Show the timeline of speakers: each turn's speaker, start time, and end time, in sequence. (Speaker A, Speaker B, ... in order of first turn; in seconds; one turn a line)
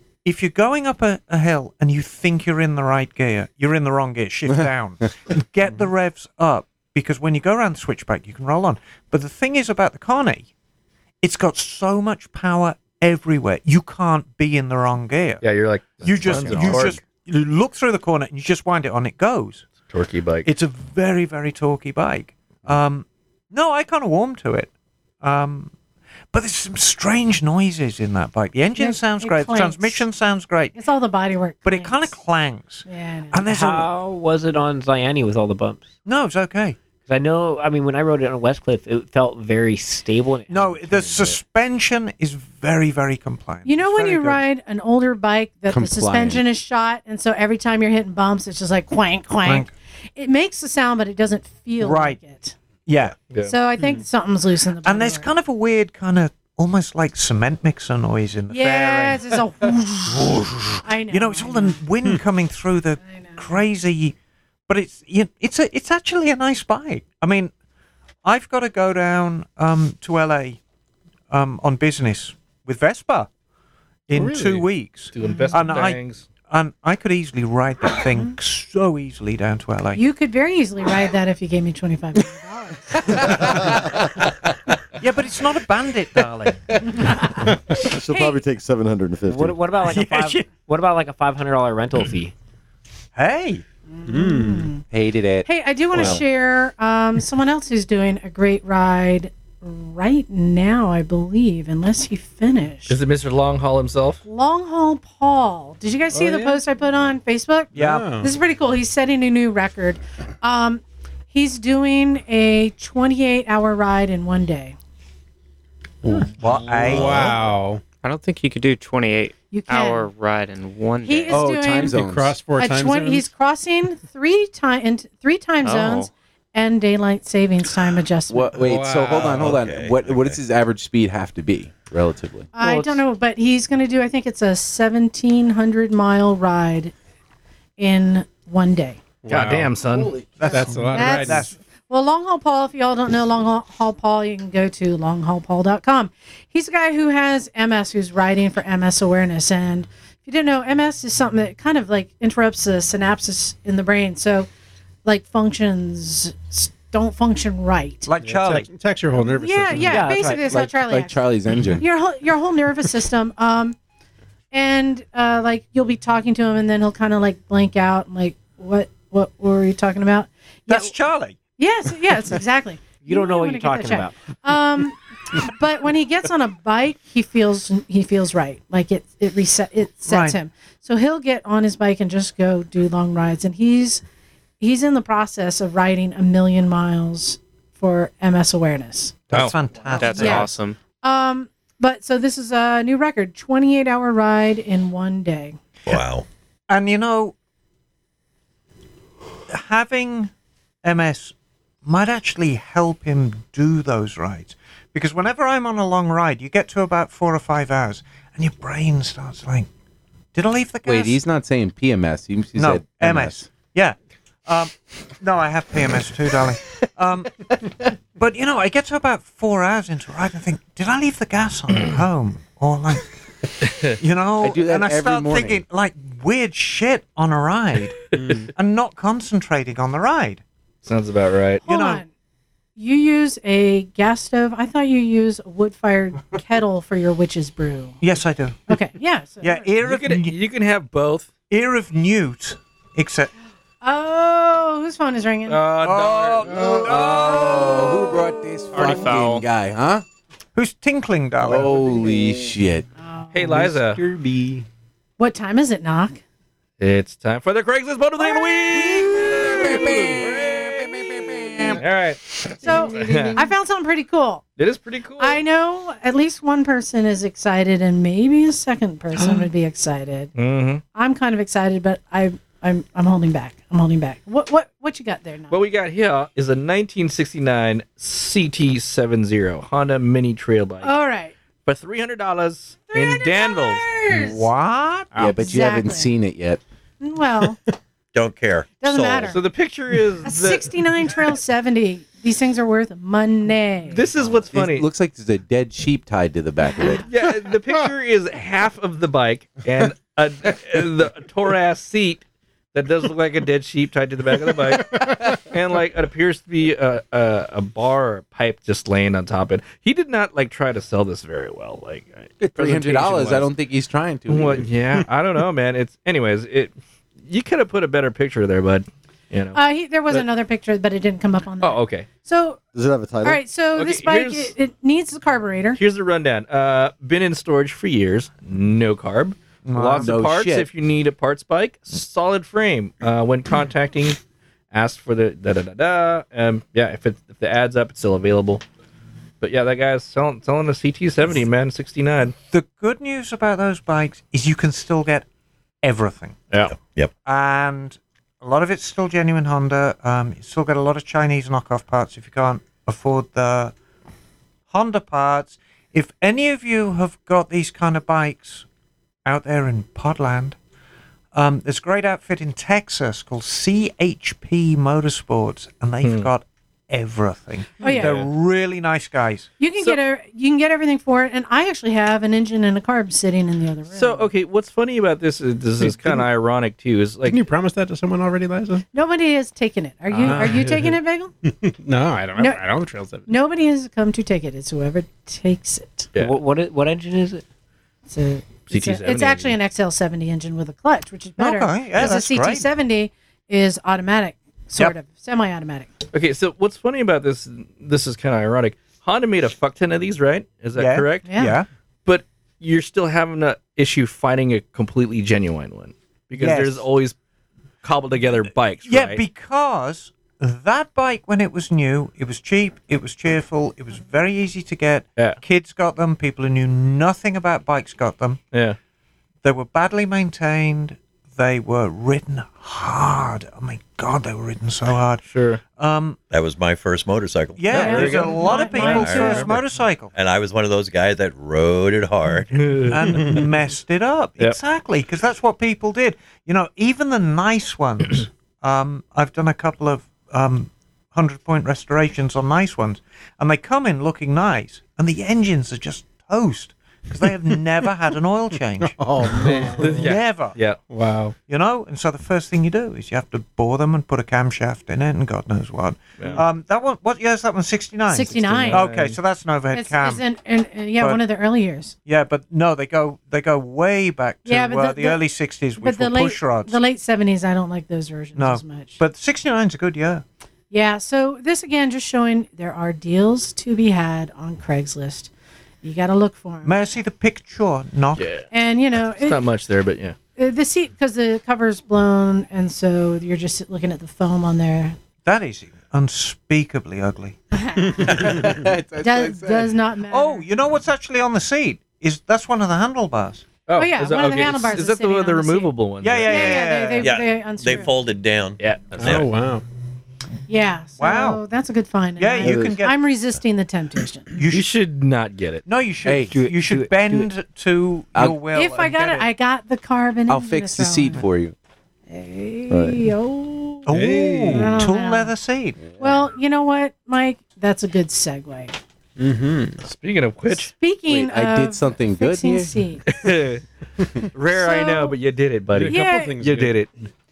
Speaker A: 0.2-10.5
Speaker A: 11.2-15.4
Speaker B: 15.4-17.0
Speaker A: 16.0-19.7
Speaker C: 16.3-16.9
Speaker B: 19.9-20.5
Speaker A: 20.4-24.7
Speaker A: 25.2-25.7
Speaker A: 26.3-30.8
Speaker D: 28.8-30.1
Speaker D: 30.7-32.2
Speaker A: 31.6-33.9
Speaker D: 32.8-33.4
Speaker E: 33.4-35.9
Speaker A: 36.0-36.8
Speaker E: 37.0-41.4
Speaker A: 40.5-44.4
Speaker D: 43.6-52.5
Speaker C: 45.7-46.4
Speaker A: 49.4-49.7
Speaker A: 51.8-52.2
Speaker A: 52.9-53.2
Speaker D: 53.4-55.3
Speaker A: 54.8-59.2
Speaker D: 58.5-61.8
Speaker A: 60.1-64.1
Speaker D: 63.0-63.6
Speaker A: 64.7-67.5
Speaker A: 68.2-70.6
Speaker A: 71.3-73.3
Speaker A: 74.1-80.0
Speaker B: 74.1-76.2
Speaker D: 75.2-75.5
Speaker D: 80.0-83.9
Speaker A: 85.0-86.7
Speaker D: 86.8-87.5
Speaker F: 87.9-89.6
Speaker D: 88.1-88.4
Speaker E: 89.3-92.3
Speaker A: 89.8-90.5
Speaker A: 93.1-93.6
Speaker D: 94.0-94.8
Speaker G: 94.0-94.7
Speaker C: 94.9-96.2
Speaker D: 95.4-103.0
Speaker B: 102.9-104.2
Speaker D: 104.2-110.8
Speaker G: 106.1-106.6
Speaker A: 107.8-108.1
Speaker G: 107.8-108.3
Speaker D: 111.3-114.8
Speaker G: 116.0-117.8
Speaker A: 116.4-117.4
Speaker H: 118.0-121.5
Speaker D: 119.5-120.1
Speaker D: 121.0-122.0
Speaker C: 121.3-122.4
Speaker G: 121.9-123.3
Speaker D: 122.5-128.6
Speaker H: 125.6-126.1
Speaker C: 128.3-132.5
Speaker G: 128.6-129.6
Speaker I: 129.2-130.4
Speaker D: 132.5-136.9
Speaker E: 132.6-133.0
Speaker D: 137.8-139.0
Speaker G: 139.2-141.5
Speaker B: 139.2-140.2
Speaker A: 140.4-141.6
Speaker D: 140.9-154.5
Speaker D: 155.0-158.1
Speaker A: 158.1-158.7
Speaker G: 158.2-160.2
Speaker D: 159.2-163.8
Speaker E: 159.9-160.4
Speaker C: 160.1-161.8
Speaker D: 164.5-170.9
Speaker A: 170.7-171.4
Speaker D: 171.6-184.0
Speaker E: 173.0-174.2
Speaker A: 180.1-180.4
Speaker D: 184.6-189.2
Speaker A: 189.3-190.5
Speaker H: 189.9-190.8
Speaker D: 190.0-195.6
Speaker I: 195.8-196.2
Speaker A: 196.7-197.3
Speaker A: 199.5-200.3
Speaker A: 200.8-201.3
Speaker A: 201.8-209.7
Speaker A: 210.3-211.2
Speaker C: 210.8-213.5
Speaker A: 212.6-217.5
Speaker A: 218.1-223.1
Speaker B: 223.6-223.9
Speaker A: 224.0-230.4
Speaker C: 224.4-225.6
Speaker G: 228.1-228.5
Speaker B: 230.8-231.6
Speaker A: 231.6-232.0
Speaker D: 231.6-232.1
Speaker D: 232.8-238.0
Speaker A: 238.0-238.7
Speaker D: 238.7-239.7
Speaker A: 239.4-240.3
Speaker B: 239.8-241.3
Speaker A: 241.5-243.3
Speaker D: 243.8-245.7
Speaker B: 245.5-247.9
Speaker A: 245.8-247.8
Speaker C: 246.4-250.0
Speaker H: 248.7-249.4
Speaker A: 250.6-251.8
Speaker C: 251.4-252.8
Speaker D: 253.0-253.3
Speaker B: 253.3-254.0
Speaker G: 253.4-254.6
Speaker D: 255.2-256.2
Speaker B: 256.8-260.7
Speaker C: 258.6-261.8
Speaker B: 261.8-263.5
Speaker D: 262.6-264.4
Speaker B: 264.6-265.4
Speaker D: 265.2-270.3
Speaker B: 270.3-270.8
Speaker D: 270.9-275.6
Speaker B: 275.5-280.9
Speaker D: 280.8-281.3
Speaker B: 281.6-283.9
Speaker D: 282.9-284.5
Speaker A: 284.1-285.1
Speaker G: 285.1-285.4
Speaker C: 285.1-286.6
Speaker D: 285.4-286.1
Speaker D: 287.0-287.6
Speaker I: 288.1-289.4
Speaker D: 288.8-289.4
Speaker B: 289.2-291.2
Speaker D: 290.2-294.0
Speaker B: 293.9-294.9
Speaker C: 294.5-297.1
Speaker B: 297.1-313.5
Speaker C: 312.4-314.7
Speaker B: 314.3-316.7
Speaker B: 317.3-319.6
Speaker D: 319.5-322.6
Speaker B: 321.6-322.1
Speaker F: 322.7-323.4
Speaker D: 323.2-325.8
Speaker B: 323.7-324.5
Speaker B: 325.8-334.2
Speaker A: 329.6-330.2
Speaker C: 329.8-330.7
Speaker B: 334.7-338.6
Speaker B: 339.4-342.3
Speaker A: 342.5-345.2
Speaker A: 345.8-346.5
Speaker I: 346.7-347.1
Speaker A: 347.2-353.7
Speaker A: 354.7-358.6
Speaker A: 359.2-360.6
Speaker A: 361.3-369.5
Speaker B: 366.0-366.3
Speaker D: 367.8-368.2
Speaker B: 367.8-368.2
Speaker D: 369.6-374.3
Speaker B: 373.9-377.5
Speaker G: 375.8-376.2
Speaker G: 377.2-378.8
Speaker D: 378.9-381.3
Speaker B: 380.1-380.6
Speaker G: 380.2-383.3
Speaker D: 382.4-382.6
Speaker D: 383.3-386.1
Speaker B: 386.1-386.4
Speaker E: 386.1-387.4
Speaker D: 388.1-395.9
Speaker B: 388.7-389.6
Speaker A: 391.4-392.6
Speaker B: 396.1-401.3
Speaker A: 400.7-401.7
Speaker D: 401.2-401.6
Speaker B: 402.1-407.1
Speaker A: 406.3-406.8
Speaker B: 407.8-409.2
Speaker A: 408.8-418.4
Speaker A: 419.4-425.2
Speaker B: 425.2-425.6
Speaker A: 425.8-426.2
Speaker I: 426.3-428.3
Speaker A: 427.6-430.1
Speaker B: 427.7-428.6
Speaker D: 427.7-429.5
Speaker I: 428.8-429.6
Speaker I: 430.1-432.8
Speaker B: 432.5-433.4
Speaker A: 432.9-449.0
Speaker G: 448.8-450.2
Speaker B: 449.8-450.8
Speaker A: 450.0-450.6
Speaker G: 450.9-451.3
Speaker A: 451.5-460.2
Speaker D: 458.1-458.9
Speaker B: 458.4-459.2
Speaker D: 459.7-461.9
Speaker A: 462.1-466.8
Speaker D: 464.4-465.2
Speaker D: 465.8-469.0
Speaker A: 468.4-470.2
Speaker D: 470.7-475.3
Speaker D: 475.8-476.8
Speaker A: 476.6-478.4
Speaker B: 478.2-480.1
Speaker D: 478.5-479.4
Speaker D: 480.4-485.0
Speaker A: 485.2-487.4
Speaker D: 487.5-490.5
Speaker G: 487.9-488.6
Speaker C: 488.4-489.7
Speaker A: 490.1-493.5
Speaker B: 493.7-496.6
Speaker D: 493.8-495.7
Speaker A: 496.0-497.2
Speaker D: 496.2-497.9
Speaker I: 497.0-499.3
Speaker B: 498.6-499.2
Speaker G: 498.9-499.6
Speaker D: 500.5-504.3
Speaker A: 501.0-501.4
Speaker A: 502.2-503.0
Speaker C: 502.4-502.7
Speaker A: 504.3-504.7
Speaker B: 504.5-505.6
Speaker A: 505.6-509.3
Speaker C: 506.0-506.4
Speaker E: 506.3-507.3
Speaker D: 508.5-511.2
Speaker C: 510.3-511.5
Speaker D: 512.1-513.9
Speaker F: 512.7-513.0
Speaker A: 513.9-515.9
Speaker G: 513.9-514.8
Speaker D: 514.5-515.3
Speaker C: 515.8-516.1
Speaker D: 516.0-518.8
Speaker G: 519.2-519.8
Speaker B: 519.8-520.7
Speaker D: 520.5-523.0
Speaker C: 521.1-522.7
Speaker B: 523.1-523.6
Speaker B: 524.3-526.9
Speaker D: 524.5-525.1
Speaker G: 525.7-526.8
Speaker D: 525.8-526.4